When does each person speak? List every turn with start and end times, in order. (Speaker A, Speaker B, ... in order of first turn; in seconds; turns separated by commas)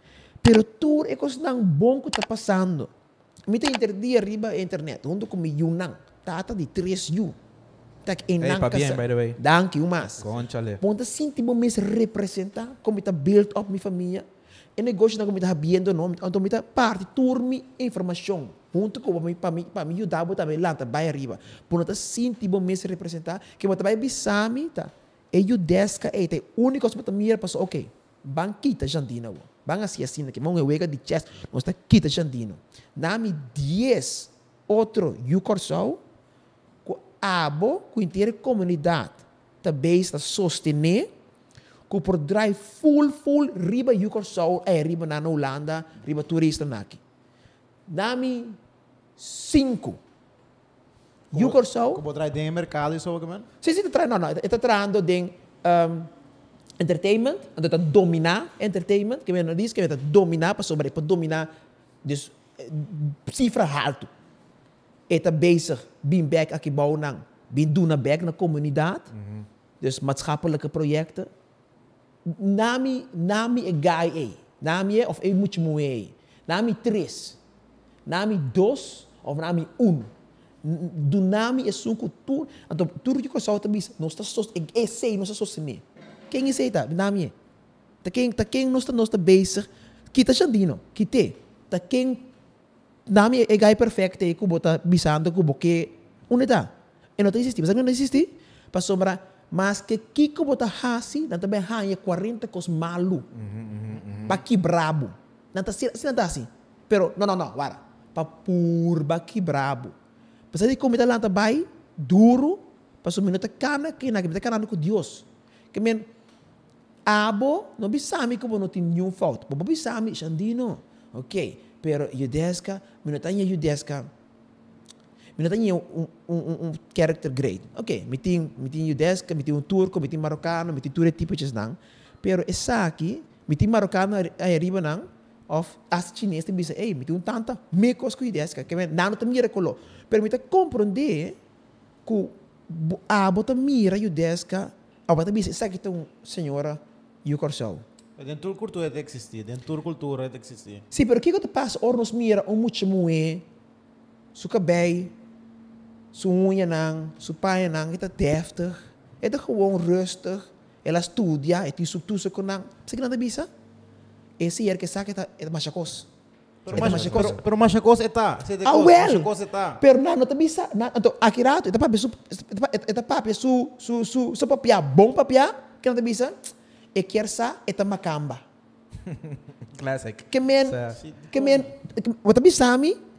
Speaker A: 0.4-2.9, Speaker A: 3.5-7.4, Speaker A: 8.0-14.2, Speaker B: 8.4-9.4, Speaker B: 10.2-10.8, Speaker A: 14.8-36.0, Speaker A: 36.8-41.1, Speaker A: 41.9-47.0, Speaker A: 47.9-48.6, Speaker A: 49.2-50.0, Speaker C: 51.3-53.5, Speaker A: 51.3-52.0, Speaker A: 53.6-56.1, Speaker A: 56.8-61.5, Speaker A: 62.0-64.1, Speaker A: 65.1-69.1, Speaker B: 69.1-69.5, Speaker A: 69.8-71.3, Speaker A: 72.2-77.4, Speaker A: 78.0-80.1, Speaker A: 80.6-87.3, Speaker A: 88.0-92.3, Speaker A: 93.1-103.3, Speaker B: 103.3-104.4, Speaker A: 104.2-109.9, Speaker A: 110.5-116.1, Speaker A: 117.0-124.1, Speaker A: 125.4-141.4, Speaker A: 142.0-147.8, Speaker C: 148.2-150.8, Speaker A: 150.9-153.5, Speaker A: 154.3-155.1, Speaker A: 156.1-163.5, Speaker A: 164.4-166.1, Speaker C: 166.6-169.8, Speaker A: 166.7-167.4, Speaker B: 166.7-167.4, Speaker A: 168.6-178.4, Speaker B: 179.1-181.0, Speaker A: 180.3-183.0, Speaker C: 181.0-181.7